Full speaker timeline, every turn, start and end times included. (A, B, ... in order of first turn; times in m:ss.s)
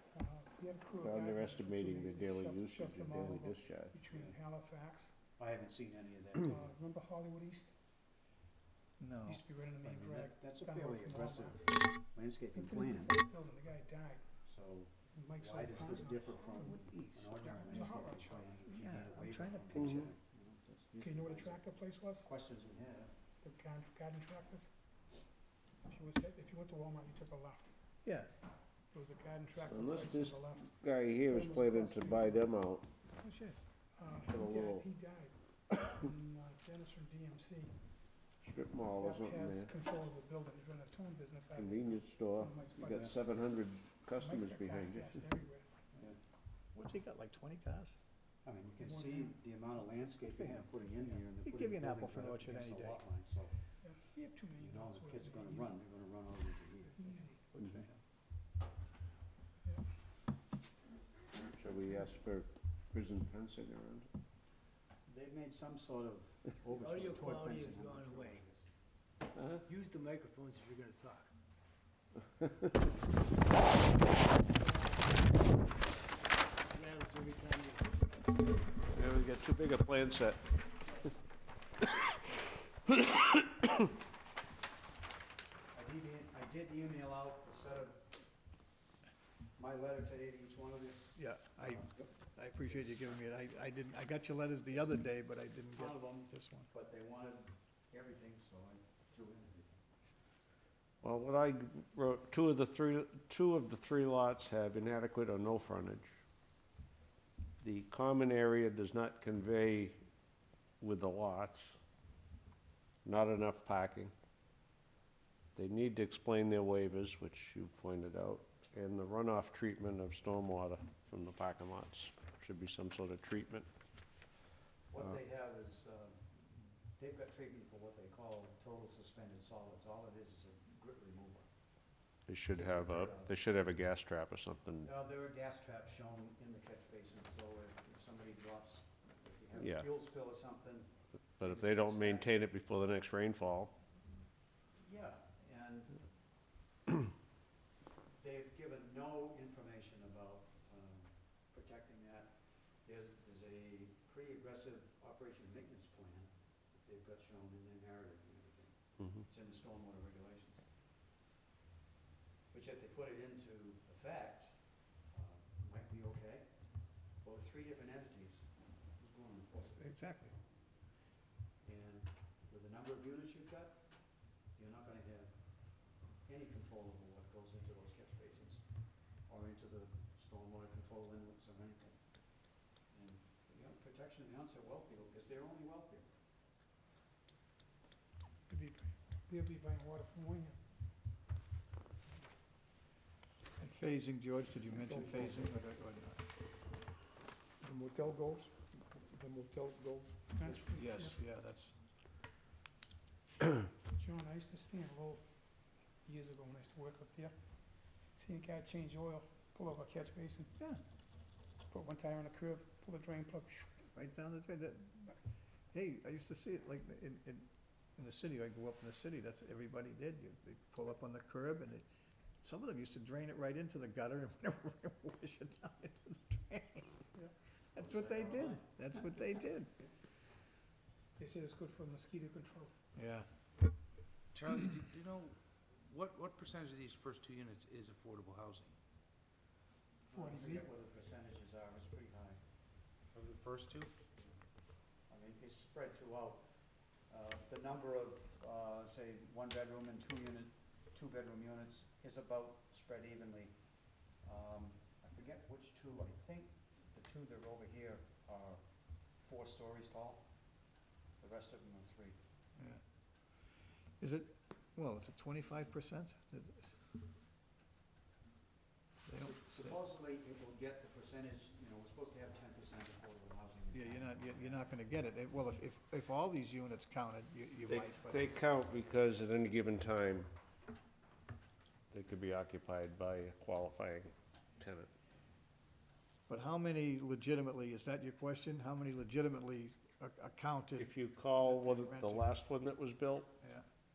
0:00.1-0:05.2 A
0:01.0-0:04.0 B
0:05.4-0:06.6 C
0:06.4-0:07.7 A
0:09.0-0:09.4 D
0:09.2-0:11.8 A
0:09.8-0:13.2 C
0:12.5-0:14.3 A
0:14.4-0:21.6 C
0:15.1-0:18.8 A
0:16.5-0:18.0 D
0:18.7-0:20.1 D
0:19.8-0:20.1 B
0:21.0-0:22.3 A
0:22.2-0:23.1 C
0:23.4-0:24.7 A
0:25.8-0:27.7 A
0:28.0-0:28.3 D
0:28.9-0:30.7 A
0:29.6-0:32.8 B
0:31.2-0:32.5 A
0:33.2-0:37.7 A
0:34.3-0:34.8 B
0:38.4-0:39.7 B
0:38.9-0:43.2 A
0:41.6-0:45.2 B
0:42.8-0:43.1 C
0:44.1-0:45.7 A
0:46.7-0:48.0 D
0:48.4-0:53.6 C
0:48.8-0:49.4 A
0:50.4-0:50.7 D
0:51.3-0:53.0 D
0:53.8-0:55.8 A
0:54.6-0:57.9 C
0:56.9-0:57.4 A
0:57.5-0:58.0 D
1:01.4-1:04.1 B
1:05.0-1:08.7 C
1:06.7-1:08.4 E
1:09.6-1:11.3 E
1:12.7-1:13.1 C
1:14.6-1:15.5 E
1:16.7-1:18.3 E
1:18.9-1:20.5 B
1:25.7-1:28.1 C
1:29.6-1:31.1 C
1:31.2-1:36.7 D
1:31.7-1:32.1 C
1:35.7-1:39.8 C
1:41.0-1:46.1 B
1:47.6-1:50.0 B
1:50.8-1:51.8 B
1:53.0-1:54.1 B
1:55.6-2:03.7 B
2:04.9-2:11.5 C
2:12.3-2:14.9 B
2:12.5-2:13.4 C
2:14.8-2:22.4 C
2:19.5-2:19.9 B
2:21.4-2:23.7 B
2:24.8-2:26.0 C
2:28.1-2:40.7 C
2:42.5-2:49.8 C
2:49.6-2:50.3 D
2:51.6-3:06.1 C
3:08.5-3:10.6 A
3:13.6-3:16.2 D
3:14.8-3:15.5 F
3:17.6-3:20.3 F
3:20.3-3:21.2 A
3:20.4-3:21.8 D
3:23.8-3:25.5 A
3:26.0-3:27.4 A
3:28.1-3:30.5 A
3:31.7-3:33.8 A
3:33.9-3:35.2 D
3:35.7-3:41.8 D
3:42.4-3:47.1 D
3:47.7-3:49.7 D
3:47.8-3:49.9 C
3:51.2-3:52.7 A
3:53.0-3:53.3 D
3:54.3-3:58.8 G
4:00.0-4:02.4 C
4:00.1-4:00.7 A
4:03.1-4:04.0 G
4:05.1-4:20.6 C
4:21.2-4:22.2 C
4:24.0-4:26.8 D
4:29.1-4:29.7 D
4:29.2-4:34.6 C
4:33.7-4:38.3 D
4:37.7-4:40.3 B
4:41.9-4:44.9 B
4:46.3-4:52.4 D
4:50.8-4:53.3 B